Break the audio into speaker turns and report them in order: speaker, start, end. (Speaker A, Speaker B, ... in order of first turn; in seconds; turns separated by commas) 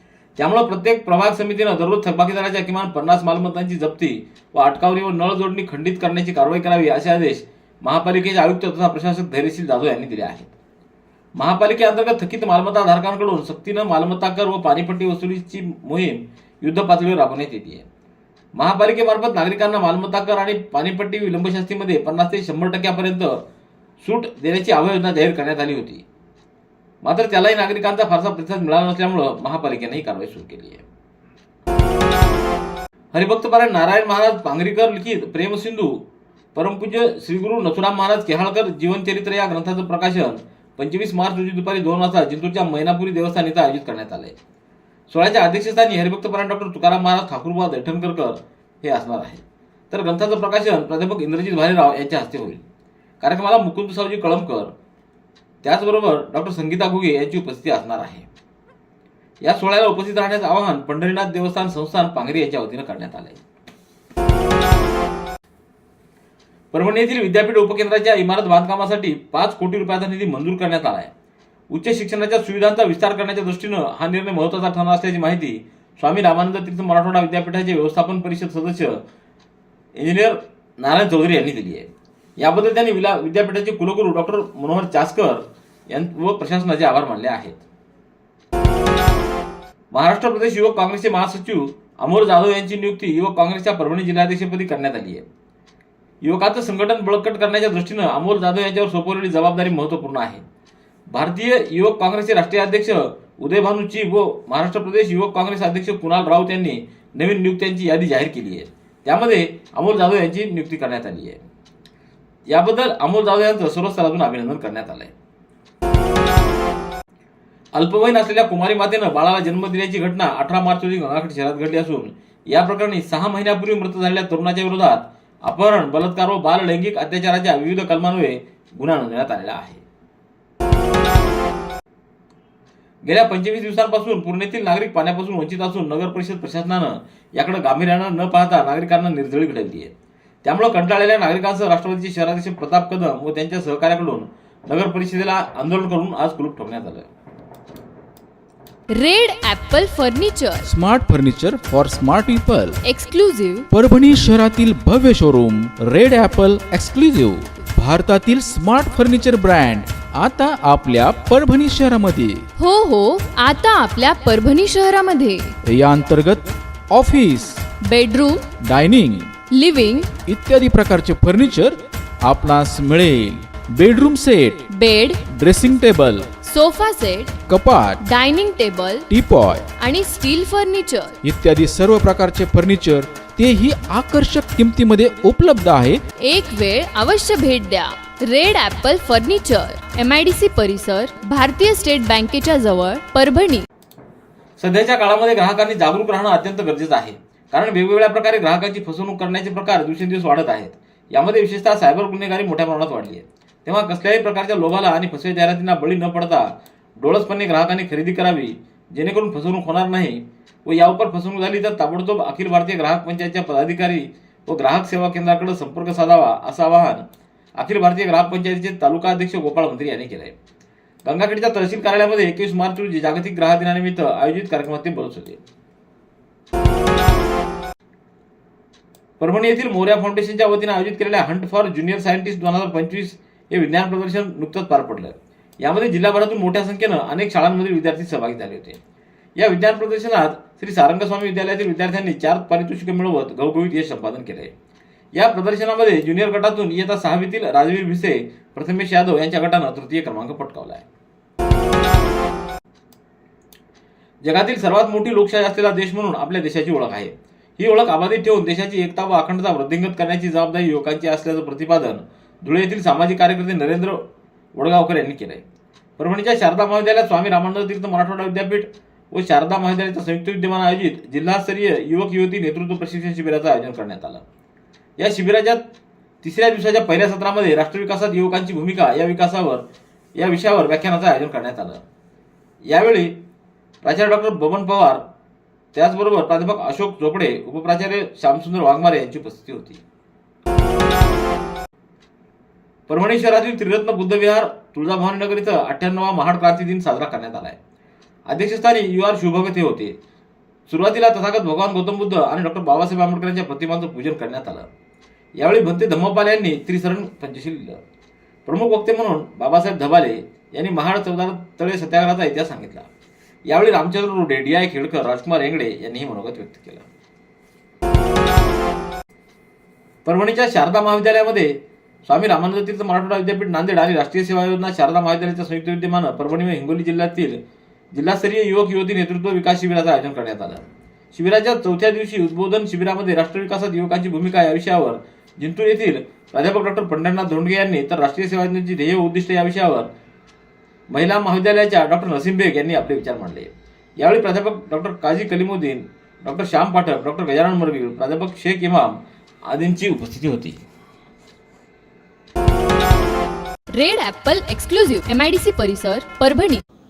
Speaker A: 0.4-10.5, Speaker A: 11.4-17.9, Speaker A: 18.6-23.4, Speaker A: 24.0-26.0, Speaker A: 27.0-30.9, Speaker A: 33.1-36.0, Speaker A: 36.5-44.4, Speaker A: 45.1-52.6, Speaker A: 53.2-54.7, Speaker A: 55.6-58.3, Speaker A: 59.4-63.4, Speaker A: 66.7-71.1, Speaker A: 71.7-79.0, Speaker A: 80.0-87.6, Speaker A: 89.9-95.2, Speaker A: 96.2-100.4, Speaker A: 101.1-111.4, Speaker A: 112.5-115.1, Speaker A: 117.7-129.8, Speaker A: 133.0-139.9, Speaker A: 140.4-147.1, Speaker B: 148.9-150.7, Speaker C: 150.7-152.8, Speaker B: 152.8-153.7, Speaker C: 153.7-162.4, Speaker B: 162.6-165.5, Speaker C: 165.7-167.7, Speaker B: 167.8-168.5, Speaker C: 168.6-169.3, Speaker B: 169.5-170.1, Speaker C: 170.2-174.6, Speaker B: 174.7-175.2, Speaker C: 175.3-176.3, Speaker B: 176.4-177.4, Speaker C: 177.5-178.0, Speaker B: 178.0-179.1, Speaker C: 179.1-179.7, Speaker B: 179.8-181.2, Speaker C: 181.2-186.0, Speaker B: 186.2-193.7, Speaker A: 194.6-220.4, Speaker A: 221.1-225.4, Speaker A: 229.2-238.8, Speaker A: 239.4-244.5, Speaker A: 245.1-250.8, Speaker A: 254.2-264.0, Speaker A: 264.6-265.5, Speaker A: 266.0-274.2, Speaker A: 275.0-275.6, Speaker A: 276.2-281.8, Speaker A: 282.7-283.2, Speaker A: 283.8-285.0, Speaker A: 285.7-289.8, Speaker A: 292.9-297.6, Speaker A: 298.3-300.0, Speaker A: 300.7-304.7, Speaker A: 305.4-307.8, Speaker A: 308.5-312.9, Speaker A: 313.5-316.9, Speaker A: 320.1-327.4, Speaker A: 327.9-339.9, Speaker A: 340.9-350.6, Speaker B: 353.7-356.6